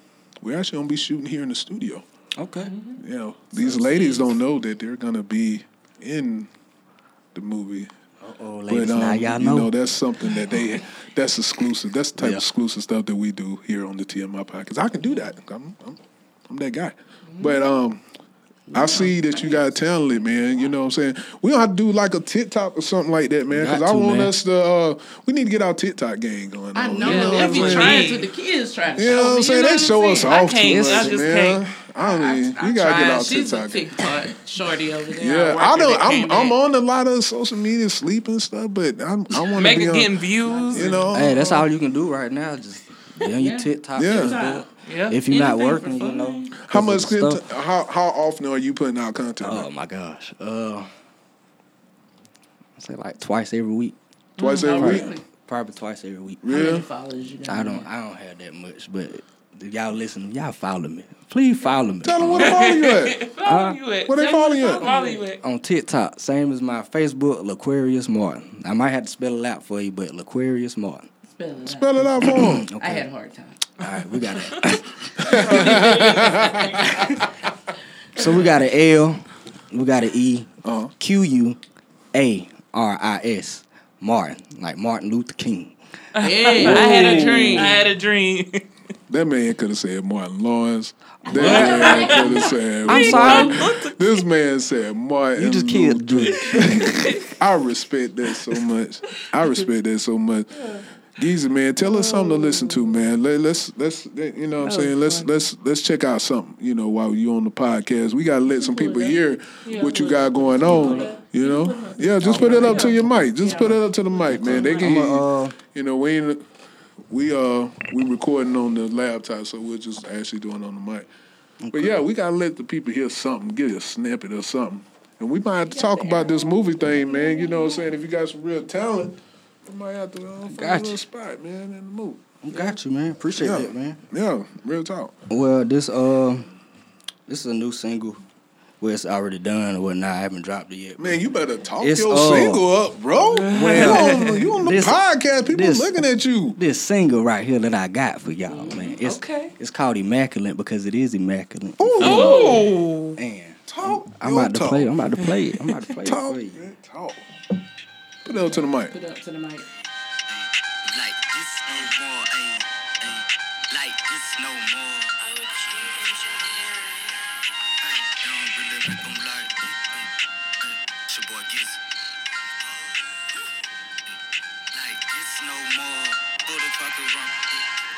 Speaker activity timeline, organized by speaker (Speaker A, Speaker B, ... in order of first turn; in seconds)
Speaker A: 0.4-2.0, 3.0-6.5, 7.3-7.9, 8.7-18.0, 18.7-28.1, 29.0-34.0, 35.2-41.6, 44.0-44.5, 46.6-49.7, 54.4-55.1, 56.4-56.9, 62.0-63.2, 64.1-64.9, 71.7-72.7, 75.2-76.8, 80.6-80.9, 86.6-87.7, 89.1-116.5, 117.1-121.1, 121.7-132.3, 133.4-135.1, 141.0-146.6, 151.8-152.7, 153.7-155.1, 155.9-157.2, 158.2-158.9
Speaker B: 2.4-2.7, 8.2-9.7, 12.2-12.4, 23.5-24.3, 30.6-31.1, 41.1-47.4, 49.4-50.9, 52.8-54.0, 54.7-56.4, 57.5-62.6, 63.4-63.8, 65.4-71.1, 72.2-73.0, 73.8-76.0, 78.2-81.6, 82.1-85.8, 91.2-93.8, 95.4-96.9, 110.6-111.1, 112.2-113.1, 114.3-115.6, 121.6-122.0, 130.5-131.0, 132.4-134.0, 135.3-136.5, 137.3-138.2, 138.8-141.2, 141.8-142.7, 143.5-146.0, 146.5-156.6
Speaker C: 2.6-3.0, 27.1-28.3, 30.2-31.6, 39.5-41.1, 44.9-45.2, 54.4-55.0, 62.4-65.4, 75.3-77.0, 86.2-88.7, 91.3-94.0, 96.3-97.4, 99.1-99.6, 100.5-100.8, 101.8-103.0, 104.6-105.3, 109.7-113.0, 114.3-115.0, 143.3-144.4, 148.7-149.5, 152.0-153.2
Speaker D: 18.7-19.9, 26.8-30.4, 32.0-36.6, 40.5-41.0, 43.2-44.6, 45.3-46.5, 54.7-55.2, 56.5-57.9, 64.7-65.2, 71.3-73.6, 75.3-76.2, 86.2-87.9, 91.4-92.5, 108.4-109.2, 110.8-111.1, 113.4-113.8, 125.7-127.9, 148.5-148.8, 152.1-152.7, 158.9-159.7
Speaker E: 160.3-167.2, 167.8-171.8, 172.6-173.5, 174.7-177.6